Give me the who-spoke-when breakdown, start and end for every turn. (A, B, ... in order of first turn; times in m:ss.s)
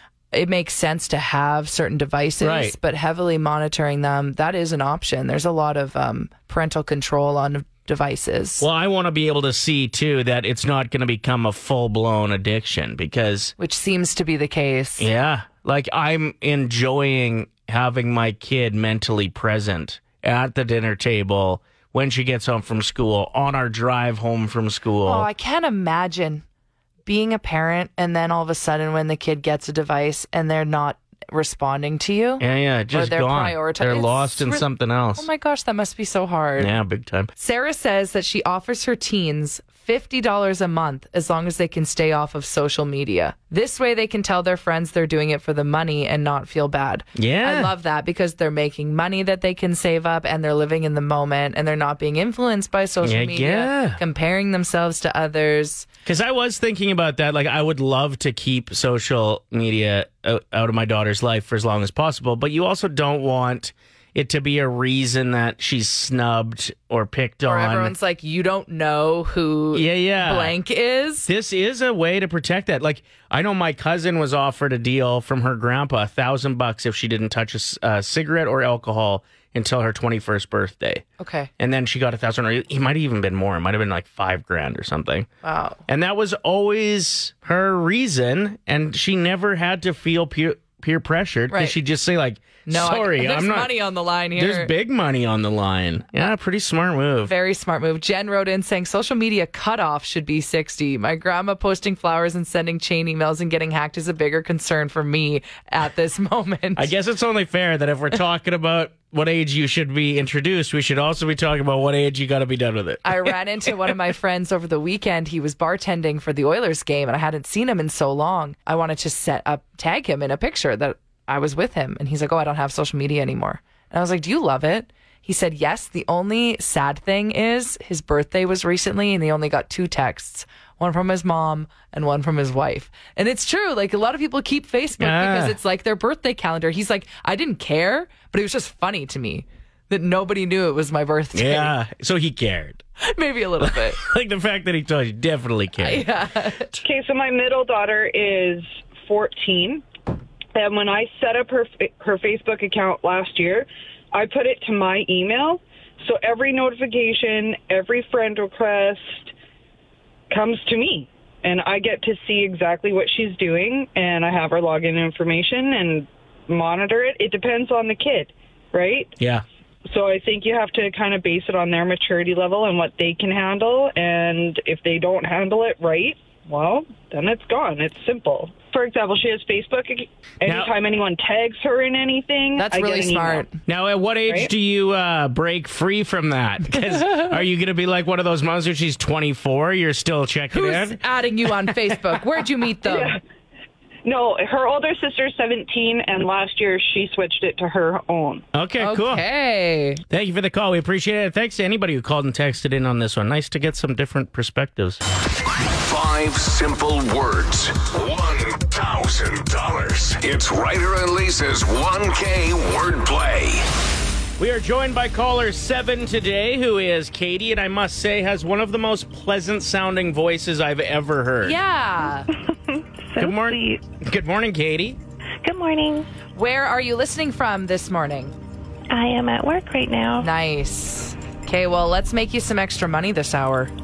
0:00.3-0:08.7 A
0:02.4-0:02.8 B
0:08.6-0:13.5 B
0:13.6-0:15.1 A
0:15.0-0:25.3 B
0:25.0-0:26.4 A
0:27.1-0:34.6 A
0:32.4-0:35.3 B
0:35.2-0:36.7 A
0:36.6-0:37.3 B
0:37.4-0:55.9 A
0:47.2-0:47.7 B
0:53.0-0:54.0 B
0:56.0-1:08.0 B
1:07.4-1:11.3 A
1:09.7-1:10.6 B
1:11.3-1:21.0 B
1:21.2-1:21.5 A
1:21.6-1:25.3 B
1:25.4-1:25.8 A
1:25.9-1:33.8 B
1:31.5-1:31.8 A
1:32.7-1:34.7 A
1:34.4-1:37.3 B
1:37.3-1:46.9 A
1:46.8-1:53.9 B
1:53.0-2:21.7 A
2:15.0-2:15.6 B
2:21.3-2:22.8 B
2:23.0-2:24.0 A
2:23.6-2:26.1 B
2:25.8-2:26.8 A
2:26.8-2:29.8 C
2:30.6-2:39.3 C
2:40.3-2:49.1 C
2:49.2-2:49.4 B
2:49.9-3:03.5 C
3:00.4-3:00.7 B
3:02.6-3:03.6 A
3:03.7-3:11.0 B
3:10.5-3:13.2 A
3:12.8-3:13.2 C
3:14.0-3:18.4 C
3:18.5-3:19.2 B
3:18.8-3:20.0 A
3:20.1-3:25.0 B
3:25.7-3:33.7 D
3:34.4-3:41.6 B
3:41.4-3:42.3 A
3:42.5-3:43.8 E
3:43.2-3:45.0 B
3:45.4-3:46.1 E
3:46.3-3:48.4 A
3:48.9-3:50.3 E
3:50.2-3:53.7 A